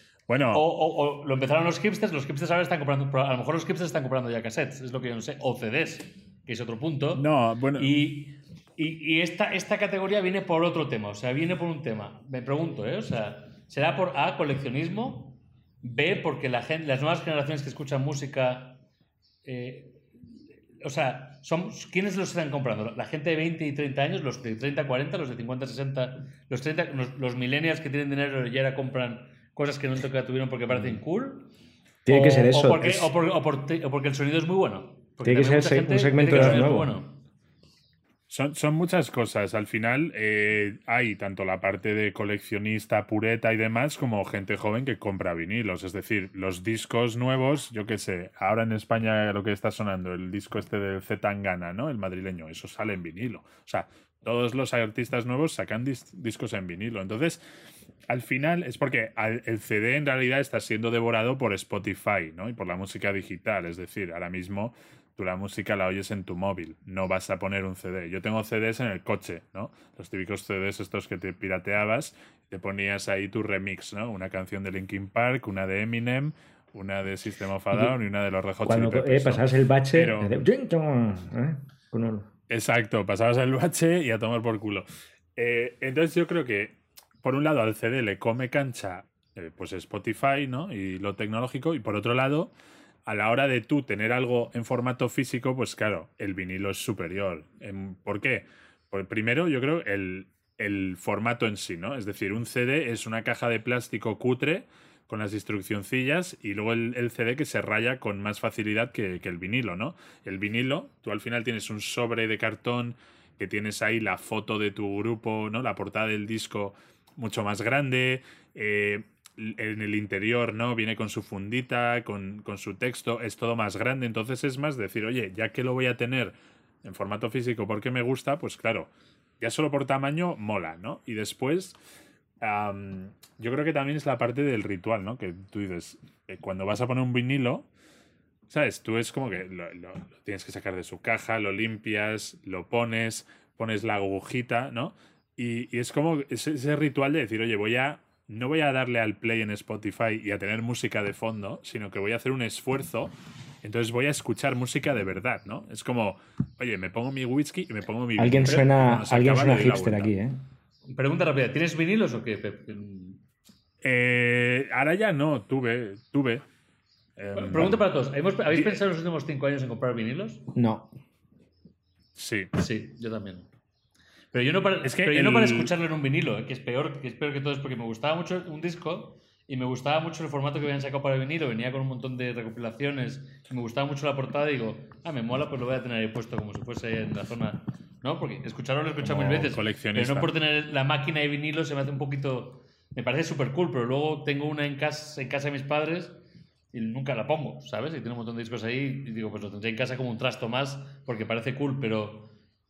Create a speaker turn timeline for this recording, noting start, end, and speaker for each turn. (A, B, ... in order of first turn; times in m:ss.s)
0:00.3-0:00.6 A
0:00.5-0:07.2 B
0:07.1-0:07.9 A
0:07.8-0:18.8 B
0:19.4-0:20.0 B
0:20.8-0:31.5 B
0:32.0-0:33.1 C
0:32.1-0:37.2 B
0:35.2-0:36.9 C
0:36.3-0:36.7 A
0:38.3-0:57.4 A
0:58.1-1:20.3 A
1:18.6-1:22.3 C
1:22.5-1:32.5 A
1:33.0-2:08.9 A
2:09.4-2:11.8 A
2:12.4-2:17.7 A
2:18.5-2:40.1 A
2:38.2-2:40.4 C
2:40.9-2:43.2 B
2:43.8-2:46.4 A
2:47.2-2:47.8 A
2:47.3-2:50.5 B
2:48.5-2:48.8 A
2:50.5-2:50.9 C
2:52.2-2:52.5 A
2:52.6-2:53.5 B
2:54.3-3:16.2 B
2:54.8-2:55.7 A
3:09.0-3:10.3 A
3:16.7-3:22.3 B